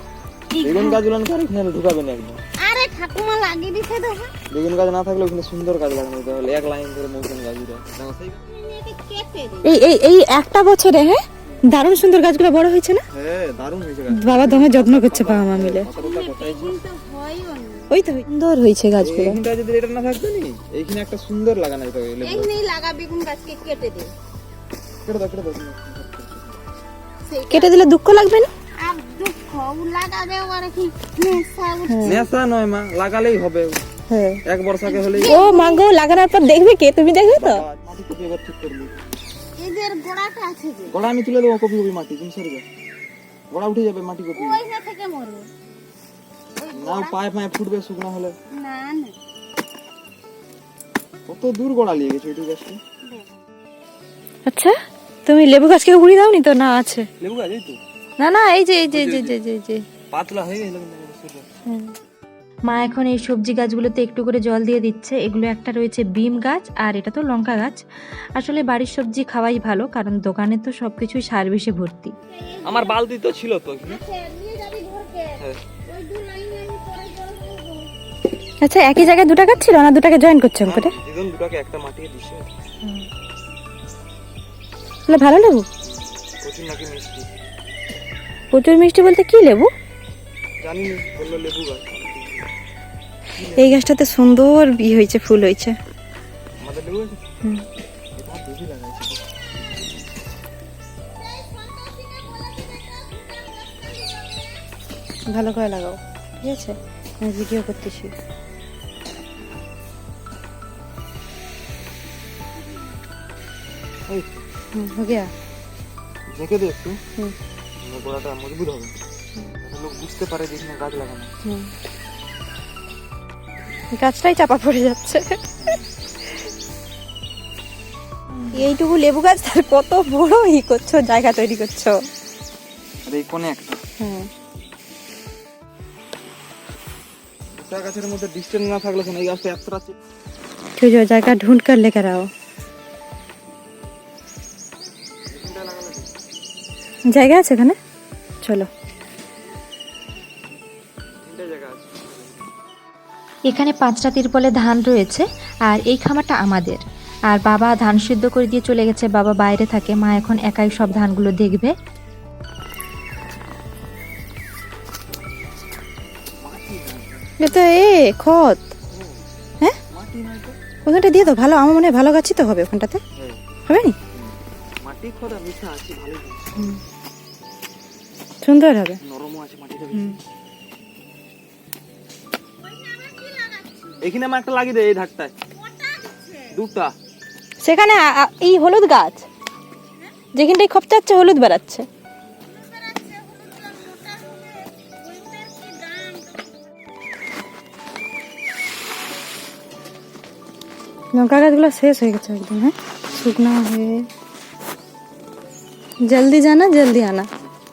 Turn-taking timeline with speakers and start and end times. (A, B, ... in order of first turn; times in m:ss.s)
0:00.5-0:01.0 A
0:00.6-0:02.4 B
0:02.6-0:04.3 A
0:04.5-0:08.4 B
0:08.4-0:09.8 A
0:09.6-0:13.0 C
0:13.1-0:16.8 B
0:14.1-0:15.9 C
0:15.9-0:17.9 A
0:17.9-0:19.4 C
0:19.0-0:22.5 B
0:22.2-0:24.1 A
0:25.0-0:26.6 B
0:27.2-0:27.9 A
0:27.5-0:28.5 C
0:28.8-0:32.2 A
0:31.9-0:32.2 C
0:32.0-0:33.8 B
0:34.1-0:34.4 C
0:34.4-0:35.4 B
0:34.8-0:35.8 A
0:35.2-0:37.6 C
0:37.3-0:39.0 B
0:39.6-0:41.0 A
0:40.9-0:42.6 B
0:43.5-0:44.6 B
0:44.3-0:45.5 A
0:46.6-0:47.2 A
0:46.7-0:48.4 B
0:48.5-0:49.1 A
0:51.3-0:52.8 B
0:53.0-0:53.4 A
0:54.5-0:54.7 C
0:55.2-0:57.1 C
0:57.2-0:57.8 B
0:58.2-0:59.8 C
0:58.9-0:59.4 B
1:00.1-1:01.5 B
1:01.7-1:01.9 C
1:02.7-1:07.8 D
1:08.4-1:12.1 D
1:12.3-1:13.0 A
1:12.6-1:14.0 B
1:13.8-1:17.9 A
1:18.6-1:20.9 C
1:20.6-1:22.5 B
1:25.1-1:25.7 C
1:25.8-1:27.3 B
1:28.5-1:29.7 C
1:30.6-1:32.4 B
1:33.4-1:33.8 B
1:33.5-1:35.8 C
1:36.6-1:37.2 B
1:38.2-1:39.2 B
1:41.2-1:44.7 A
1:45.3-1:48.1 C
1:54.1-1:54.4 B
1:54.7-1:55.3 C
1:56.3-1:57.0 B
1:57.8-1:58.9 B
1:59.6-2:01.3 B
2:01.4-2:01.7 C
2:04.0-2:05.4 C
2:08.5-2:11.9 C
2:13.0-2:13.8 B
2:14.0-2:14.3 C
2:17.5-2:19.9 B
2:20.8-2:22.3 C
2:25.3-2:26.1 B
2:27.1-2:27.8 C
2:28.4-2:28.7 C
2:31.2-2:32.5 B
2:33.5-2:41.7 D
2:46.4-2:47.6 B
2:47.4-2:48.7 C
2:48.9-2:49.2 B
2:49.9-2:51.3 B
2:50.8-2:53.0 C
2:53.7-2:54.0 C
2:54.1-2:56.7 B
2:58.4-2:59.0 C
2:59.0-3:00.2 B
3:02.6-3:04.1 A
3:04.0-3:05.3 B
3:05.5-3:06.6 A
3:06.5-3:06.9 B
3:07.6-3:09.2 C
3:10.0-3:10.2 A
3:10.3-3:11.8 C
3:12.5-3:16.6 A
3:21.1-3:24.0 C
3:26.1-3:27.3 C